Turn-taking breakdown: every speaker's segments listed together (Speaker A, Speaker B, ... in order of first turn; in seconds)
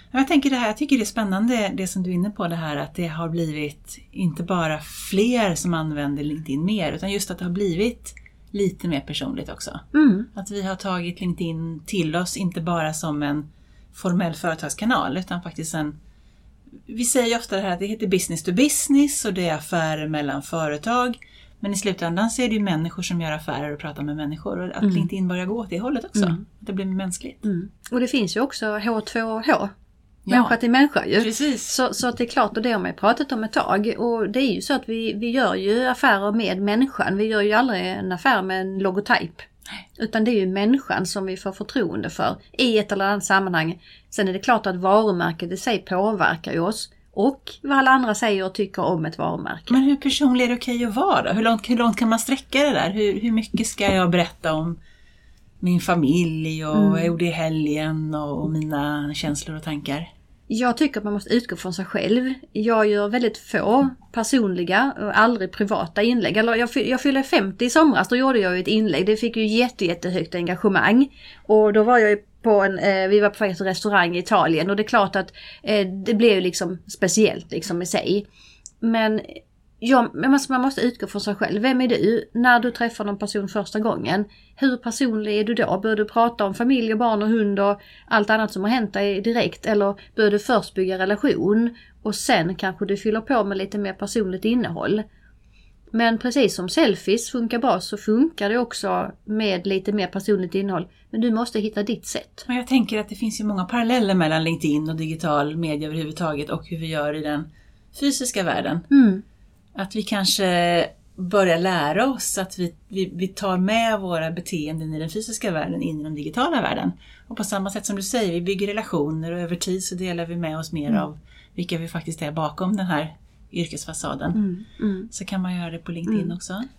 Speaker A: 0.1-15.9, 16.9-27.4, 30.3-30.6, 31.2-31.8, 49.7-54.8, 55.6-60.1, 102.5-108.8, 109.8-124.4, 125.1-126.7
Speaker B: 9.9-10.3, 27.4-29.7, 30.3-49.8, 56.8-57.1, 60.5-78.2, 78.8-95.0, 95.9-102.5, 108.9-109.2, 124.3-125.1, 126.1-126.3